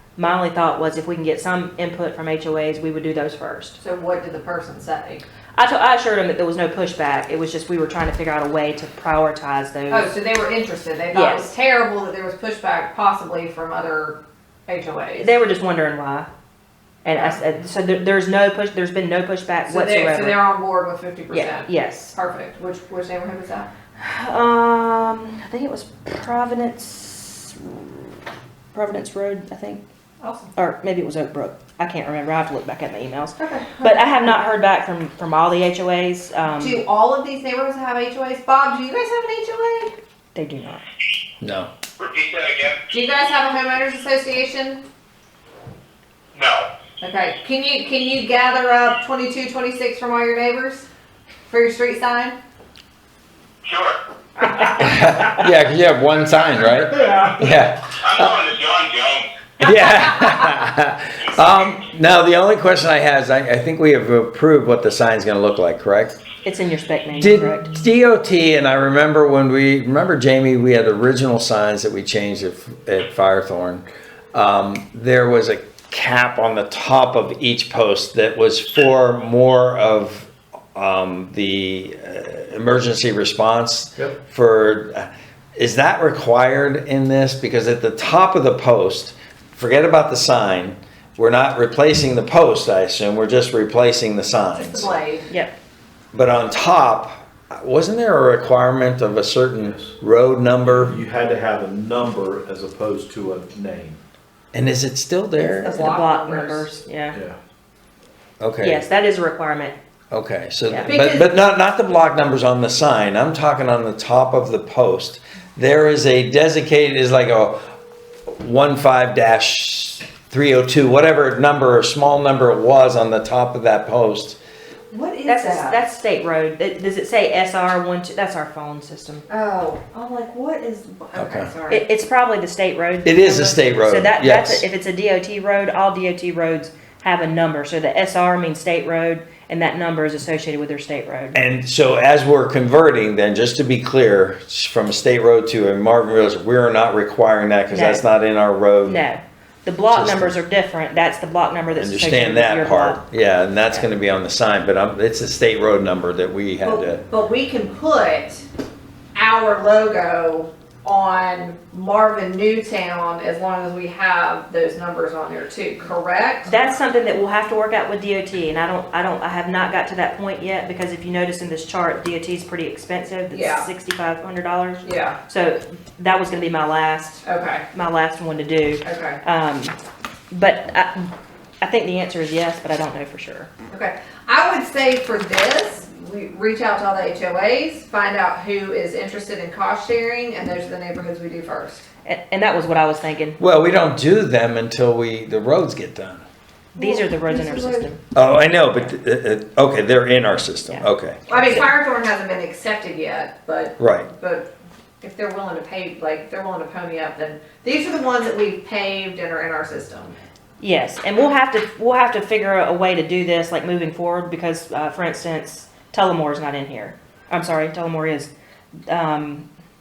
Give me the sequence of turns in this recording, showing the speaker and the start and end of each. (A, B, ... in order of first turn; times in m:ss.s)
0:00.2-0:03.8 A
0:03.8-0:05.2 B
0:05.6-0:10.1 A
0:09.9-0:15.3 B
0:11.1-0:11.5 A
0:15.2-0:16.3 A
0:17.0-0:20.4 A
0:17.1-0:17.4 B
0:19.7-0:23.7 B
0:21.3-0:22.2 A
0:24.0-0:28.2 A
0:28.7-0:29.8 A
0:30.2-0:30.6 B
0:30.6-0:36.8 A
0:33.4-0:34.5 B
0:36.6-0:39.9 B
0:40.4-0:40.8 A
0:41.4-0:41.7 C
0:42.0-0:42.8 D
0:42.9-0:44.8 B
0:46.4-0:46.7 D
0:47.0-0:50.9 B
0:51.5-0:52.4 B
0:53.6-0:54.0 D
0:54.6-0:55.0 A
0:54.6-0:58.3 C
0:57.0-0:57.4 E
0:58.0-0:59.3 D
0:59.6-1:06.2 C
1:06.4-1:07.8 A
1:07.2-1:34.9 C
1:34.6-1:35.3 B
1:35.3-1:35.5 A
1:36.1-1:41.0 C
1:39.6-1:39.9 E
1:40.6-1:44.0 E
1:44.5-1:45.8 C
1:45.4-1:46.7 B
1:45.7-1:47.2 A
1:47.1-1:47.4 E
1:48.4-1:48.8 C
1:48.6-1:49.8 A
1:50.1-1:57.6 C
1:50.8-1:51.3 B
1:58.3-2:04.4 C
2:04.9-2:05.8 B
2:05.3-2:09.2 A
2:09.3-2:11.8 B
2:11.2-2:11.5 C
2:11.7-2:21.4 A
2:13.0-2:14.6 C
2:21.3-2:29.0 C
2:27.7-2:28.0 A
2:28.8-2:33.0 A
2:29.9-2:30.3 C
2:31.7-2:37.0 C
2:36.6-2:38.5 B
2:39.2-2:46.6 B
2:46.5-2:59.8 A
2:53.3-2:53.7 B
2:54.8-2:55.2 B
2:57.2-2:57.6 B
2:58.8-2:59.2 B
3:00.3-3:03.5 A
3:03.7-3:11.9 B
3:12.0-3:13.4 A
3:13.4-3:16.2 C
3:16.8-3:17.9 B
3:16.8-3:18.0 A
3:18.1-3:21.5 C
3:20.7-3:21.7 A
3:21.3-3:24.5 B
3:23.8-3:24.1 C
3:25.0-3:30.2 B
3:30.6-3:38.3 A
3:38.9-3:39.5 A